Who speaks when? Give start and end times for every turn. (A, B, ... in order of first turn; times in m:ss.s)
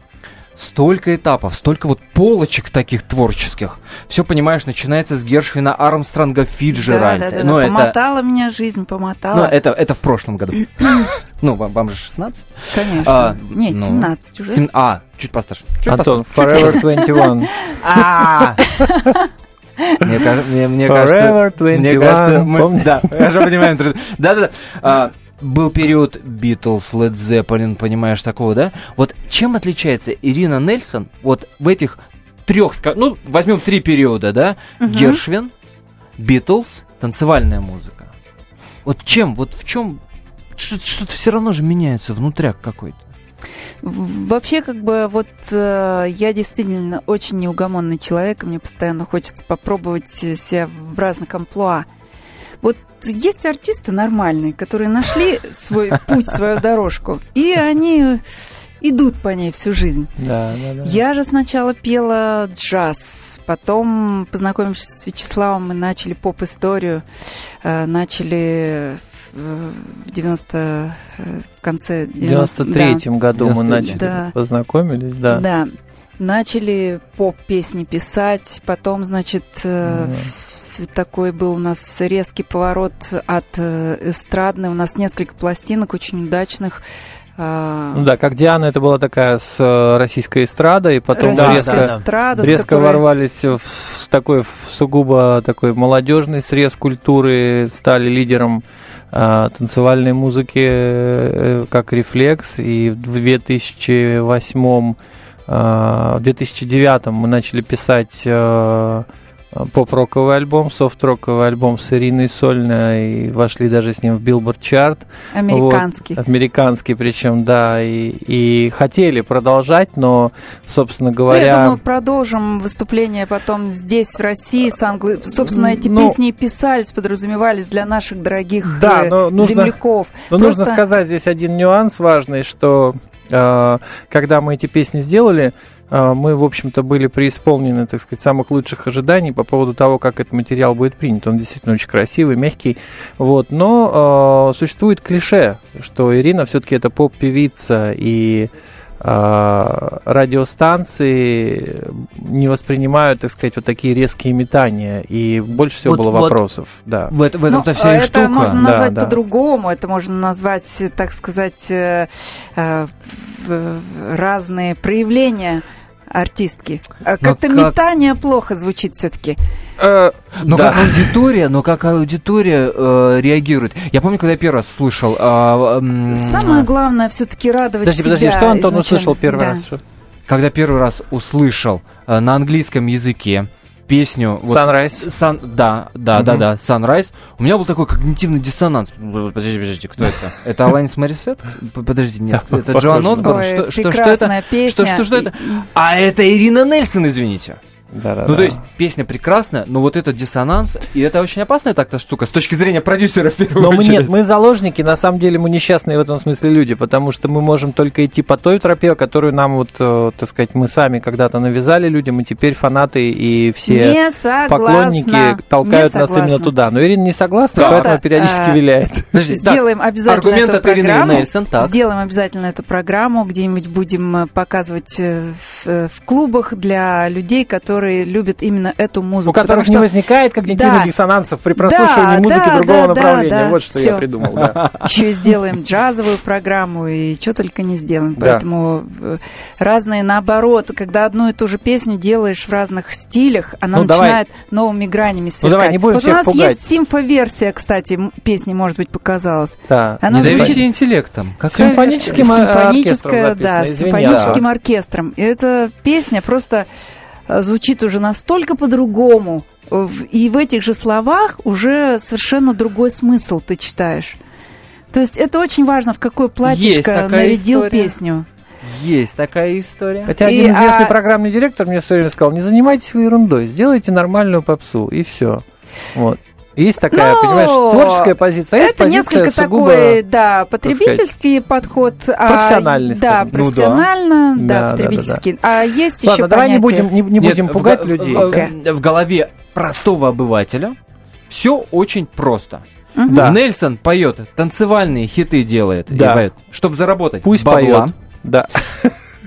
0:00.6-0:08.0 A
0:06.7-0:09.5 B
0:09.3-0:16.9 A
0:12.7-0:14.6 B
0:15.9-0:17.5 C
0:17.8-0:18.6 A
0:18.6-0:19.3 B
0:20.0-0:35.5 A
0:20.9-0:23.7 C
0:34.8-0:35.2 B
0:36.2-0:38.1 A
0:38.8-0:40.0 A
0:40.6-0:43.0 A
0:43.8-0:51.9 B
0:52.6-0:58.2 B
0:58.8-1:00.1 B
1:00.2-1:01.0 C
1:00.8-1:07.0 B
1:07.6-1:13.0 B
1:12.2-1:15.4 C
1:13.3-1:14.0 A
1:13.9-1:14.3 B
1:15.3-1:26.8 B
1:19.8-1:20.3 C
1:27.4-1:28.1 B
1:27.9-2:01.8 C
1:31.1-1:33.0 B
1:31.2-1:32.6 A
1:55.3-1:56.2 B
2:01.3-2:10.8 B
2:05.4-2:06.2 C
2:08.6-2:09.8 C
2:10.3-2:37.1 C
2:35.8-2:36.4 A
2:37.1-2:38.6 A
2:37.5-2:49.4 B
2:38.5-2:39.2 C
2:47.2-2:47.7 A
2:49.8-2:51.2 C
2:50.4-2:56.7 A
2:56.1-2:59.6 B
2:57.8-2:59.8 C
3:00.3-3:17.6 A
3:04.4-3:05.1 C
3:06.1-3:06.4 C
3:12.3-3:13.4 C
3:13.0-3:15.7 B
3:17.9-3:18.6 C
3:18.2-3:24.2 A
3:23.6-3:39.2 C
3:33.7-3:36.5 B
3:37.6-3:37.9 A
3:37.6-3:38.6 B
3:39.1-3:41.7 A
3:39.3-3:49.9 B
3:49.2-3:54.7 C
3:50.4-3:50.9 B
3:51.6-3:54.0 B
3:54.8-4:10.6 B
3:58.2-3:58.4 C
4:03.7-4:04.2 C
4:05.4-4:06.6 C
4:09.7-4:10.6 C
4:10.1-4:12.4 A
4:11.5-4:14.4 C
4:11.6-4:16.7 B
4:14.0-4:14.4 A
4:17.3-4:24.2 B
4:24.9-4:28.3 B
4:26.4-4:27.9 A
4:28.6-4:30.2 A
4:30.1-4:40.0 C
4:30.2-4:30.9 B
4:36.9-4:46.9 B
4:40.6-4:41.0 C
4:42.2-4:43.5 C
4:43.3-4:43.9 A
4:44.3-4:45.2 C
4:46.0-4:48.4 C
4:47.2-4:50.8 A
4:48.2-4:48.5 B
4:51.3-4:57.9 A
4:53.0-4:53.3 B
4:53.1-4:53.4 C
4:55.9-4:56.2 C
4:57.2-4:59.0 C